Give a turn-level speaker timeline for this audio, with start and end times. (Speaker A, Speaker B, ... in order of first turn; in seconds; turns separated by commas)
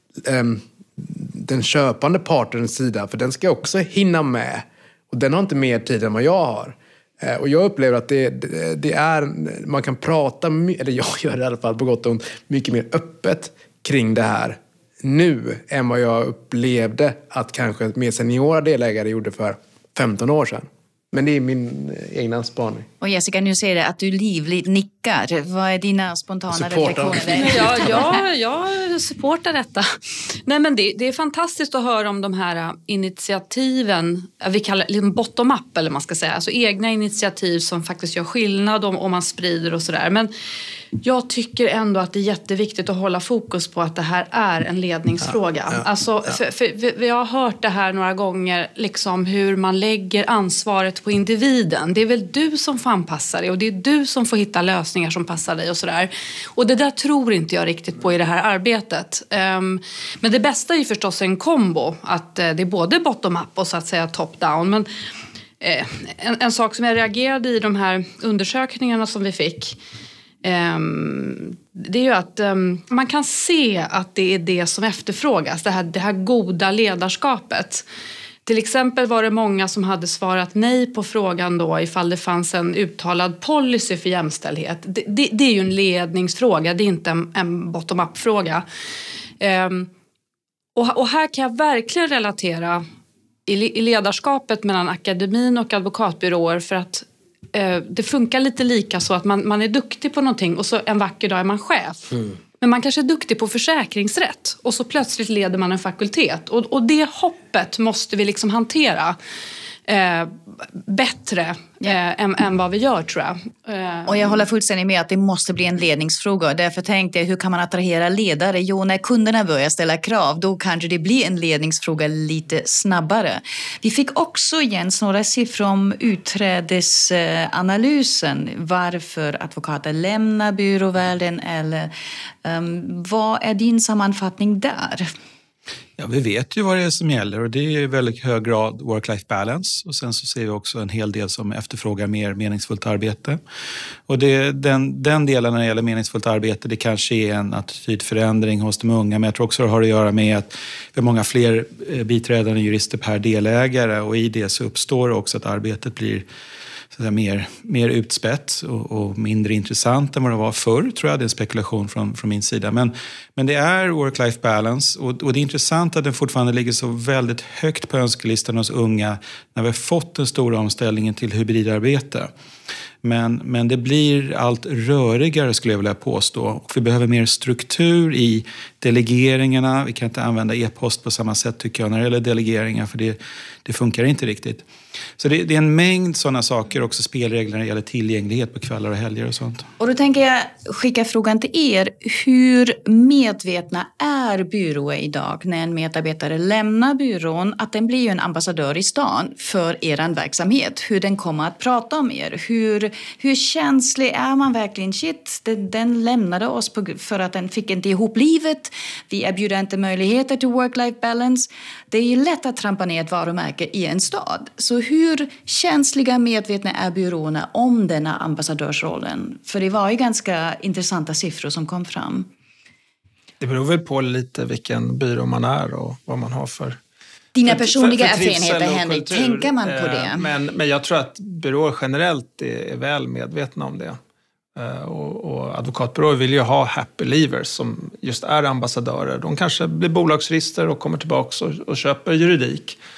Speaker A: 0.2-22.9, Speaker B: 23.0-28.2, Speaker A: 26.5-27.9, Speaker C: 27.3-40.3, Speaker C: 41.0-64.9, Speaker A: 45.3-46.4, Speaker C: 65.6-69.8, Speaker C: 70.4-77.8, Speaker C: 78.5-88.7, Speaker C: 89.4-89.9, Speaker C: 90.8-92.8, Speaker C: 93.5-109.2, Speaker C: 109.8-114.3, Speaker B: 114.0-131.9, Speaker B: 132.4-135.1, Speaker D: 136.0-143.4, Speaker D: 144.1-156.3, Speaker D: 156.9-172.3, Speaker D: 173.0-184.7, Speaker D: 185.2-189.7, Speaker B: 189.8-222.3, Speaker E: 223.4-226.8, Speaker B: 227.3-230.3, Speaker E: 227.4-234.0, Speaker E: 234.5-242.8